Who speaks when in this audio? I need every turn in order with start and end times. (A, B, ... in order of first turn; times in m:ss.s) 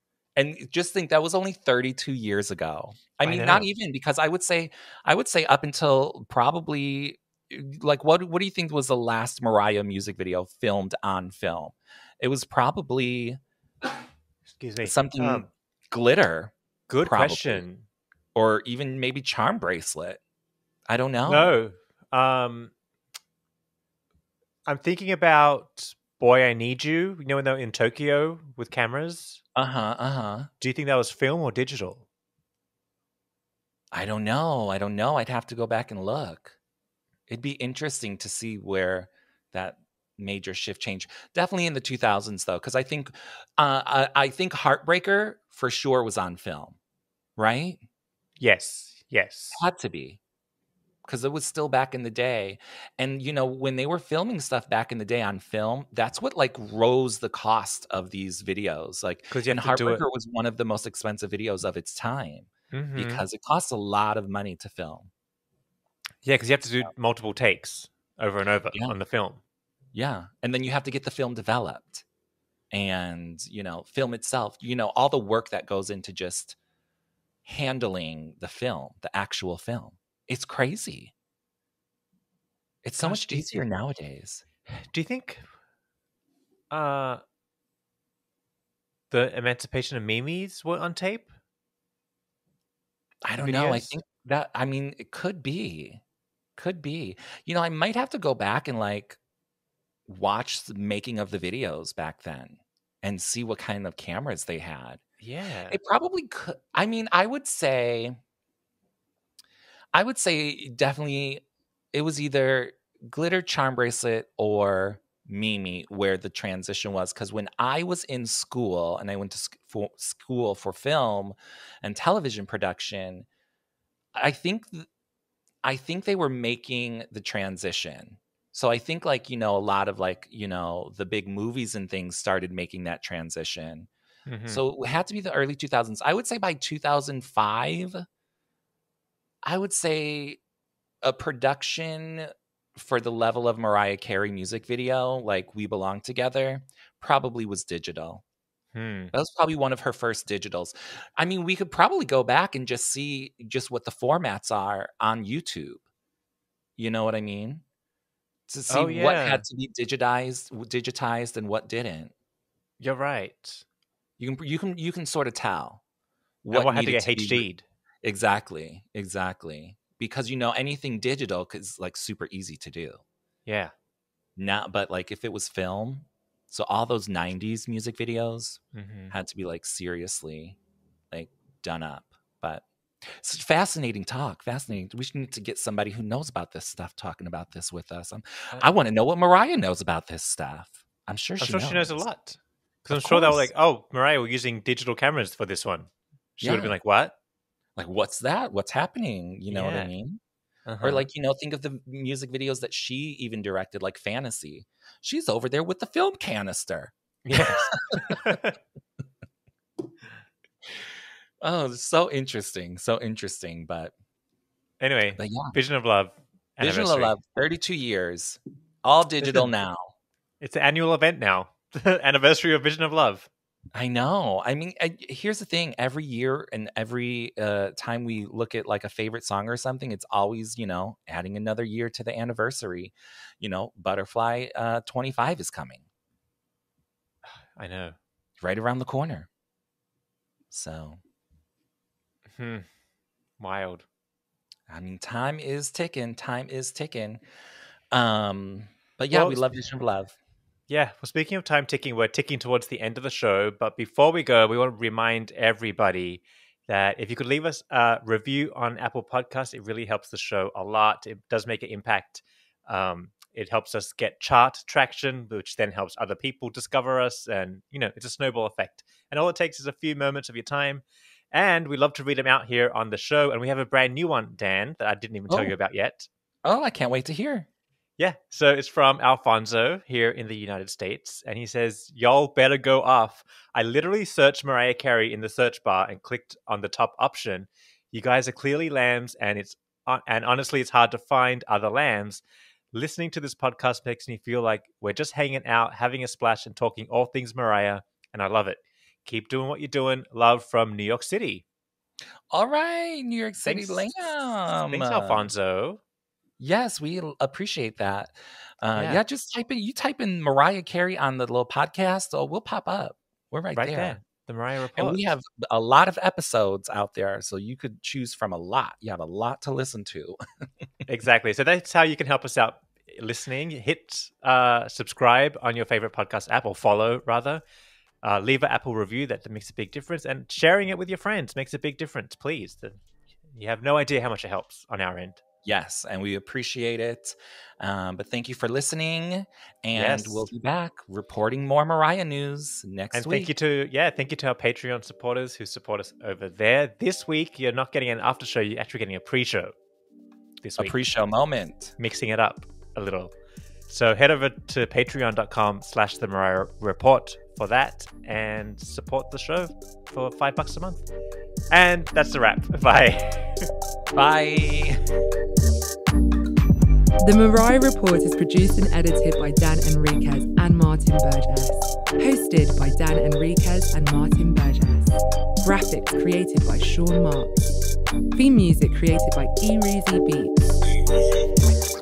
0:00.4-0:13.4 A
0:03.2-0:03.6 B
0:14.5-0:15.5 B
0:14.8-0:17.6 A
0:16.9-0:17.8 B
0:18.3-0:20.2 A
0:20.9-0:21.6 A
0:21.2-0:22.7 B
0:24.6-0:29.4 B
0:29.6-0:30.5 A
0:30.6-0:32.0 B
0:33.9-0:36.6 A
0:37.3-0:46.8 A
0:47.4-0:47.8 A
0:48.4-0:49.6 B
0:49.5-0:50.2 A
0:51.1-1:05.1 A
0:59.3-1:00.0 B
1:02.7-1:03.2 B
1:06.2-1:09.4 B
1:09.9-1:12.0 A
1:12.7-1:16.6 A
1:17.4-1:21.1 A
1:22.8-1:24.4 A
1:23.0-1:23.6 B
1:24.7-1:25.4 B
1:26.7-1:27.2 B
1:29.1-1:31.3 B
1:33.2-1:36.0 A
1:33.4-1:33.9 B
1:36.6-1:39.2 A
1:40.1-1:45.0 A
1:45.2-1:45.8 B
1:45.7-1:48.2 A
1:49.9-2:03.3 A
2:04.2-2:04.9 A
2:05.6-2:13.9 A
2:14.3-2:14.6 B
2:14.5-2:18.0 A
2:19.4-2:20.4 A
2:21.0-2:28.2 A
2:28.7-2:29.1 B
2:29.1-2:35.8 A
2:36.8-2:37.6 A
2:38.5-2:42.1 A
2:38.7-2:39.4 B
2:42.8-2:43.6 B
2:44.2-2:45.8 A
2:46.4-2:47.5 A
2:46.5-2:47.6 B
2:48.0-2:53.0 A
2:53.4-2:53.7 B
2:54.4-3:00.6 A
2:58.7-2:59.1 B
3:01.1-3:12.0 A
3:11.4-3:17.1 B
3:12.9-3:13.5 A
3:16.4-3:16.8 A
3:17.8-3:20.2 A
3:19.5-3:19.9 B
3:20.6-3:21.1 B
3:20.8-3:28.4 A
3:27.2-3:28.5 B
3:31.4-3:33.9 A
3:34.8-3:37.1 B
3:35.1-3:35.6 A
3:36.6-3:39.9 A
3:39.2-3:39.5 B
3:40.4-3:43.3 B
3:43.7-3:55.8 A
3:57.5-3:58.0 B
3:58.4-3:59.3 A
4:00.5-4:01.0 A
4:02.3-4:02.7 B
4:03.4-4:03.8 B
4:04.7-4:07.2 A
4:07.9-4:10.2 A
4:09.1-4:09.4 B
4:10.7-4:36.1 B
4:35.3-4:35.5 A
4:36.4-4:37.5 A
4:38.0-5:01.4 B
5:02.3-5:05.3 A
5:03.4-5:05.8 B
5:06.4-5:14.0 A
5:08.7-5:09.0 B
5:13.5-5:15.0 B
5:14.8-5:20.2 A
5:20.9-5:27.4 B
5:28.0-5:35.2 B
5:35.4-5:43.3 A
5:39.7-5:40.3 B
5:42.9-5:49.5 B
5:50.4-5:50.7 B
5:50.6-5:51.8 A
5:51.8-5:53.1 B
5:53.7-6:00.8 B
6:01.5-6:03.5 B
6:03.9-6:04.8 A
6:07.0-6:17.3 C
6:18.1-6:20.3 C